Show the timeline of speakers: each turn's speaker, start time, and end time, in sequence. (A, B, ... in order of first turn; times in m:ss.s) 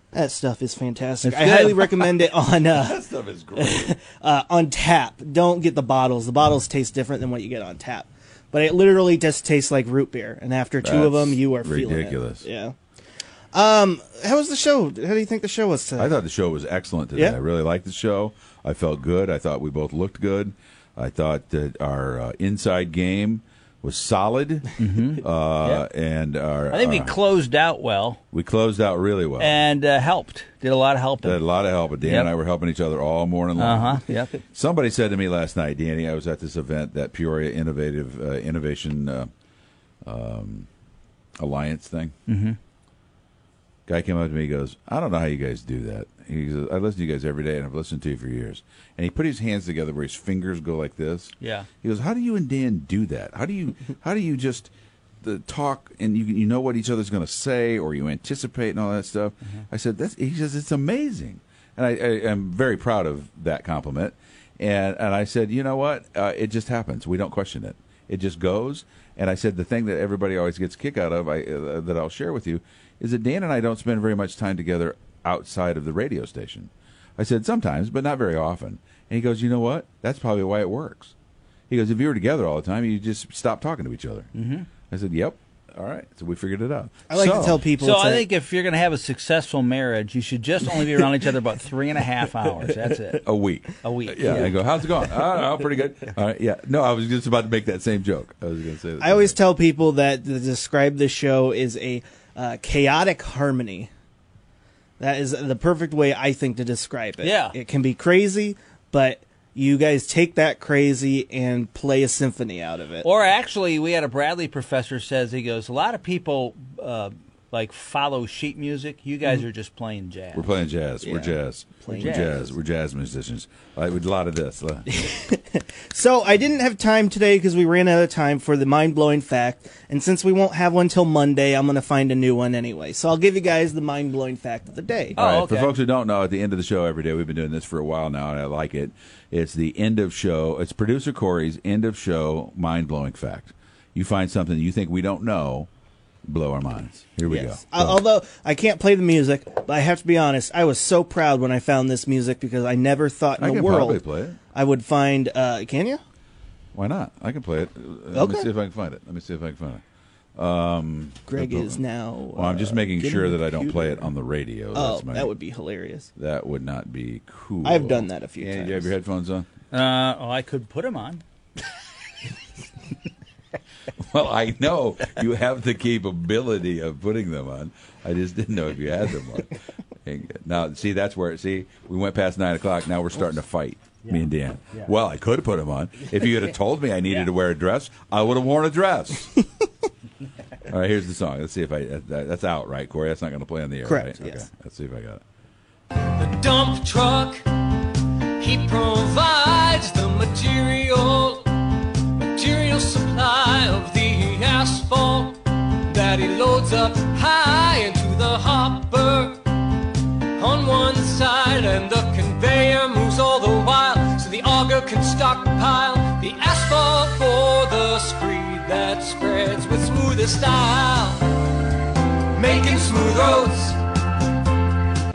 0:00.1-0:12.7 A
0:01.2-0:02.1 B
0:02.7-0:03.9 C
0:10.8-0:12.4 C
0:13.5-0:16.1 A
0:16.0-0:27.2 C
0:24.8-0:25.8 B
0:26.7-0:28.2 B
0:28.3-0:29.6 C
0:29.4-0:32.3 B
0:31.2-0:39.3 C
0:33.6-0:34.4 B
0:40.0-0:40.7 C
0:41.4-0:42.1 C
0:42.3-0:42.6 B
0:43.9-0:54.7 C
0:51.4-0:51.7 B
0:55.2-1:21.1 C
1:21.7-1:24.3 C
1:24.3-1:24.7 B
1:24.9-1:27.6 C
1:27.1-1:28.3 A
1:27.8-1:33.3 B
1:33.2-1:39.4 C
1:33.8-1:34.6 B
1:39.0-1:43.9 A
1:45.0-1:53.1 A
1:47.2-1:47.5 B
1:53.0-2:00.5 B
2:00.3-2:04.9 C
2:01.0-2:02.5 A
2:02.0-2:02.4 B
2:04.9-2:15.2 A
2:15.2-2:15.7 B
2:15.2-2:25.7 C
2:26.2-2:28.0 C
2:27.2-2:34.0 A
2:33.4-2:34.4 C
2:34.5-2:36.0 A
2:36.7-2:39.8 C
2:38.1-2:38.5 A
2:40.3-2:41.8 C
2:41.3-2:44.1 A
2:42.3-2:45.3 C
2:44.7-2:46.1 A
2:46.2-2:49.5 C
2:47.6-2:48.9 A
2:49.7-2:51.2 B
2:54.0-3:09.3 C
3:10.7-3:15.2 C
3:13.8-3:14.5 A
3:16.0-3:41.5 D
3:42.3-3:43.8 D